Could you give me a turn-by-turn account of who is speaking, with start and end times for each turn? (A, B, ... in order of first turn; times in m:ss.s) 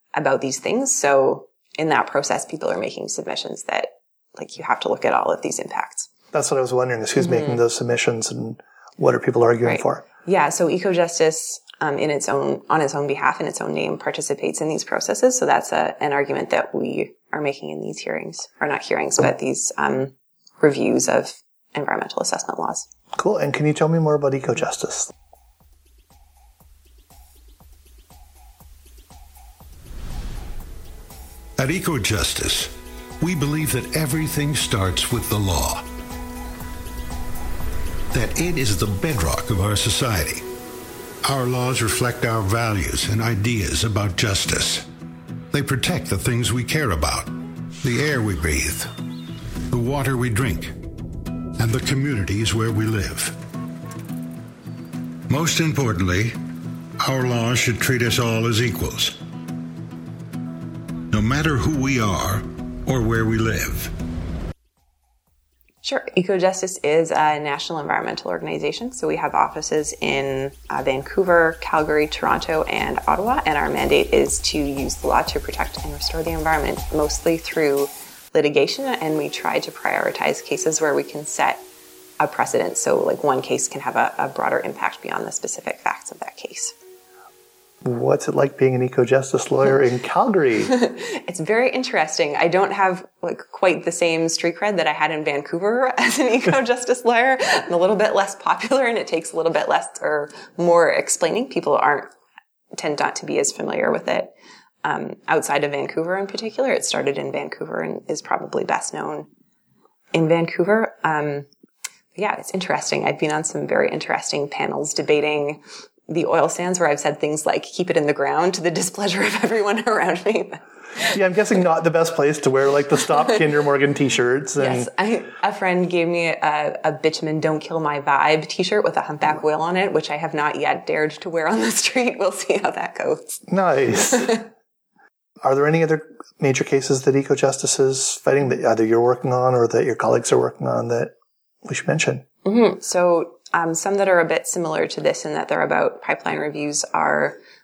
0:00.1-0:06.1 A
0:06.3-0:10.0 B
0:07.2-0:07.6 A
0:09.6-0:22.8 A
0:23.1-0:25.1 B
0:31.6-0:35.9 C
0:38.1-0:40.4 C
0:41.2-0:44.8 C
0:45.5-0:48.9 C
0:49.7-0:50.8 C
0:51.6-0:53.3 C
0:55.3-0:56.4 C
0:57.0-0:59.1 C
1:01.1-1:03.9 C
1:05.8-1:21.6 A
1:22.2-1:26.7 A
1:27.8-1:30.7 B
1:30.7-1:42.1 A
1:42.7-1:44.3 A
1:44.8-1:49.3 A
1:50.1-1:51.5 A
1:52.1-2:01.2 A
2:01.1-2:04.9 B
2:04.6-2:13.4 A
2:13.5-2:14.4 B
2:14.0-2:14.5 A
2:15.4-2:21.1 B
2:21.6-2:22.2 B
2:22.4-2:27.4 A